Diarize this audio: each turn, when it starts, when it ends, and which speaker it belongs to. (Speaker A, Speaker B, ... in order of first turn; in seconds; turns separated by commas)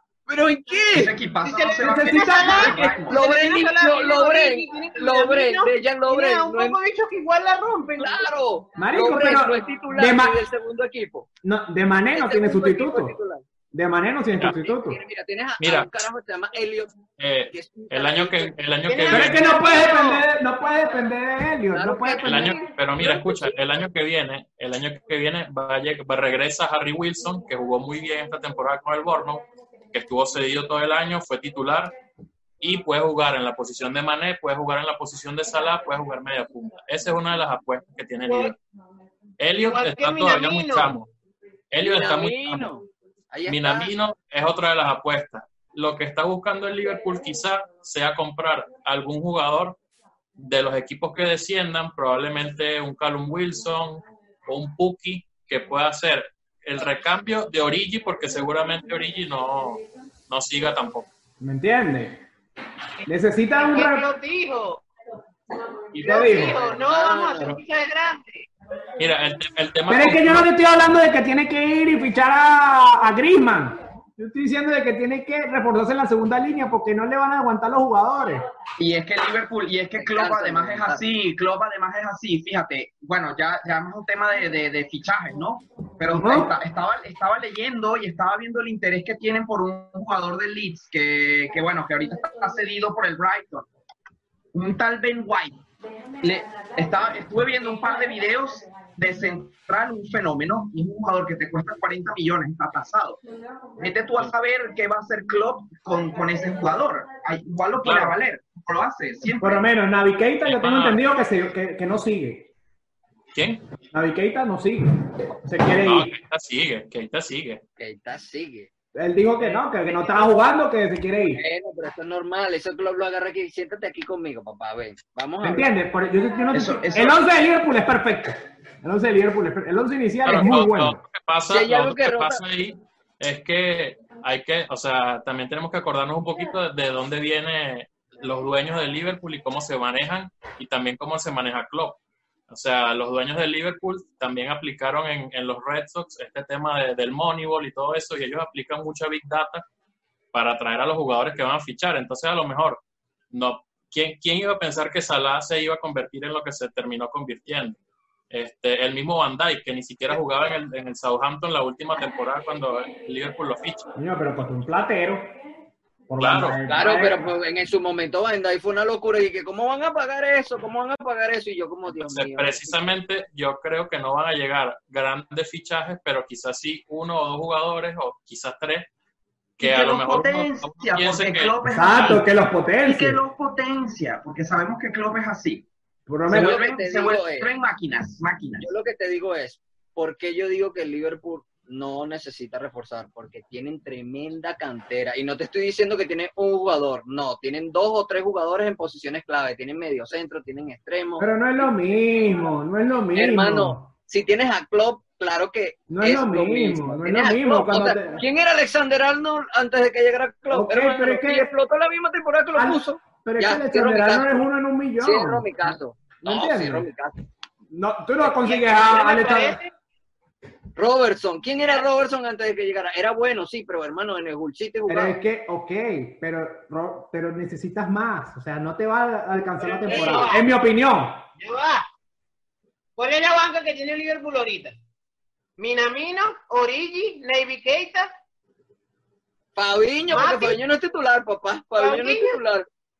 Speaker A: 0.3-1.2, Speaker B: 0.9-3.3, Speaker C: 1.4-8.3, Speaker D: 1.8-3.1, Speaker A: 3.0-6.8, Speaker A: 8.0-11.3, Speaker D: 8.7-10.4, Speaker D: 11.4-13.2, Speaker A: 12.1-13.4, Speaker D: 13.7-15.0, Speaker A: 14.4-16.9, Speaker E: 15.6-15.9, Speaker E: 17.2-19.6, Speaker A: 17.5-18.5, Speaker C: 18.9-20.2, Speaker D: 19.1-22.6, Speaker A: 21.7-23.6, Speaker E: 22.2-31.9, Speaker E: 32.6-38.6, Speaker C: 38.2-38.5, Speaker E: 39.4-41.1, Speaker C: 39.6-40.9, Speaker E: 41.7-42.8, Speaker A: 41.8-43.9, Speaker E: 43.5-49.8, Speaker E: 50.4-61.1, Speaker D: 61.4-62.2, Speaker C: 63.0-64.8, Speaker D: 63.1-64.1, Speaker C: 65.9-68.5, Speaker E: 65.9-66.5, Speaker D: 66.0-66.6, Speaker A: 66.2-67.5, Speaker E: 69.0-70.5, Speaker D: 69.9-78.5, Speaker B: 78.8-93.7, Speaker A: 80.0-81.0, Speaker D: 86.1-86.5, Speaker B: 94.5-95.6, Speaker B: 96.2-103.2, Speaker B: 103.8-109.6, Speaker E: 107.8-108.1, Speaker D: 109.4-112.5, Speaker E: 110.4-111.0, Speaker E: 113.3-113.6, Speaker D: 113.9-116.1, Speaker E: 115.8-117.6, Speaker A: 117.8-118.7, Speaker D: 118.9-121.4, Speaker C: 119.4-120.4, Speaker A: 121.3-125.7, Speaker D: 125.4-131.0, Speaker B: 126.5-127.2, Speaker E: 130.2-149.6, Speaker A: 131.5-132.4, Speaker E: 150.3-157.8, Speaker E: 158.3-163.9, Speaker D: 163.9-165.3, Speaker D: 166.1-167.3, Speaker E: 166.2-166.6, Speaker A: 166.7-172.8, Speaker E: 171.9-178.9, Speaker E: 179.6-181.5, Speaker B: 179.6-182.2, Speaker D: 181.7-183.2, Speaker B: 182.8-185.7, Speaker D: 186.1-186.6, Speaker A: 186.3-187.5, Speaker B: 186.3-188.7, Speaker A: 188.6-201.7, Speaker D: 201.2-203.9, Speaker A: 203.1-214.5, Speaker D: 205.9-208.2, Speaker D: 210.5-211.5, Speaker D: 212.5-216.9, Speaker A: 215.0-217.2, Speaker D: 217.7-219.6, Speaker C: 218.2-219.7, Speaker A: 220.8-225.2, Speaker D: 224.9-231.2, Speaker C: 229.6-230.4, Speaker A: 229.9-230.2, Speaker C: 231.4-231.8, Speaker C: 233.0-234.8, Speaker C: 235.6-238.1, Speaker A: 239.6-242.7, Speaker C: 240.1-240.6, Speaker C: 241.8-242.4